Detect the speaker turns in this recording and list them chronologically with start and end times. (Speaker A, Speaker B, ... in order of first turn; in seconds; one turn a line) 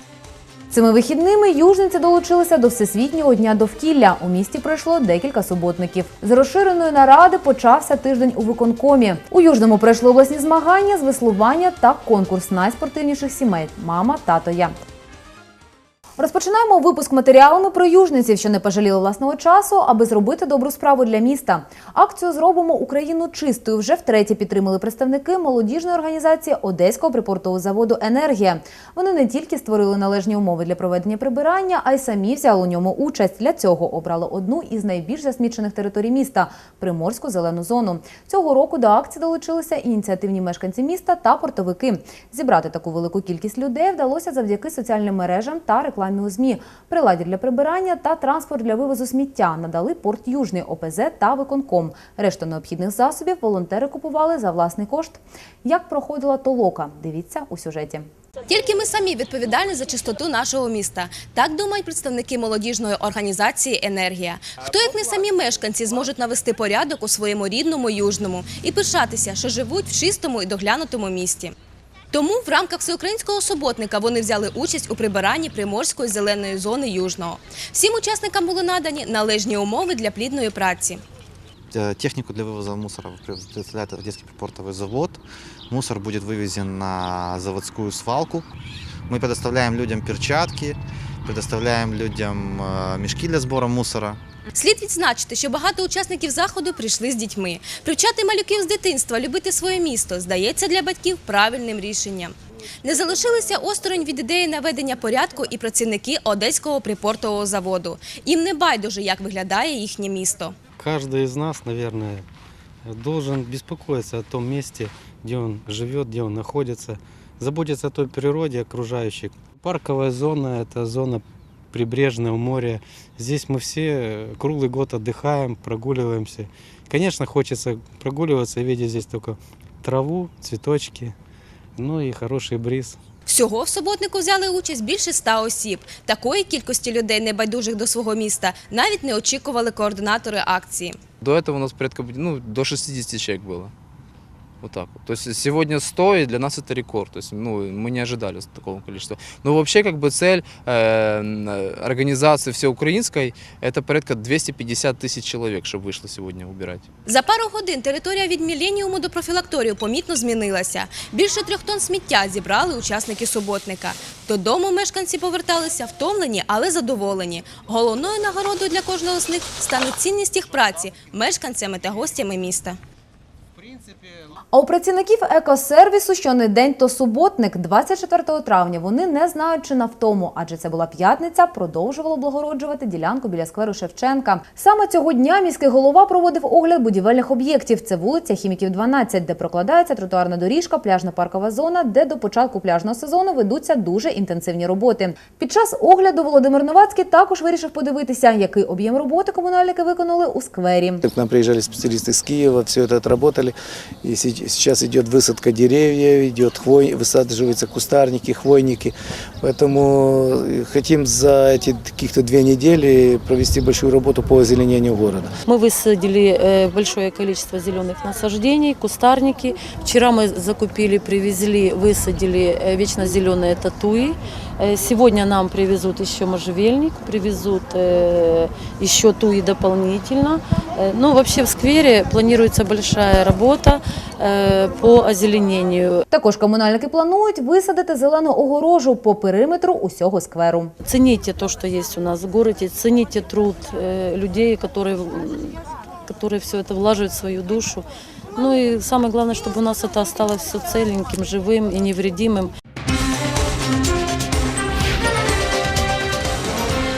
Speaker A: 0.7-14.8
Speaker A: 16.2-58.1
Speaker B: 58.5-71.5
Speaker B: 72.1-81.0
Speaker C: 81.7-88.5
Speaker C: 89.1-94.2
Speaker B: 94.5-110.5
Speaker D: 110.8-112.2
Speaker D: 112.8-131.1
Speaker D: 131.8-133.0
Speaker B: 133.3-141.0
Speaker E: 141.2-143.7
Speaker E: 144.6-156.8
Speaker B: 157.1-172.8
Speaker A: 174.5-201.0
Speaker F: 201.0-215.3
Speaker G: 215.4-236.0
Speaker A: 236.1-240.7
Speaker G: 240.8-252.5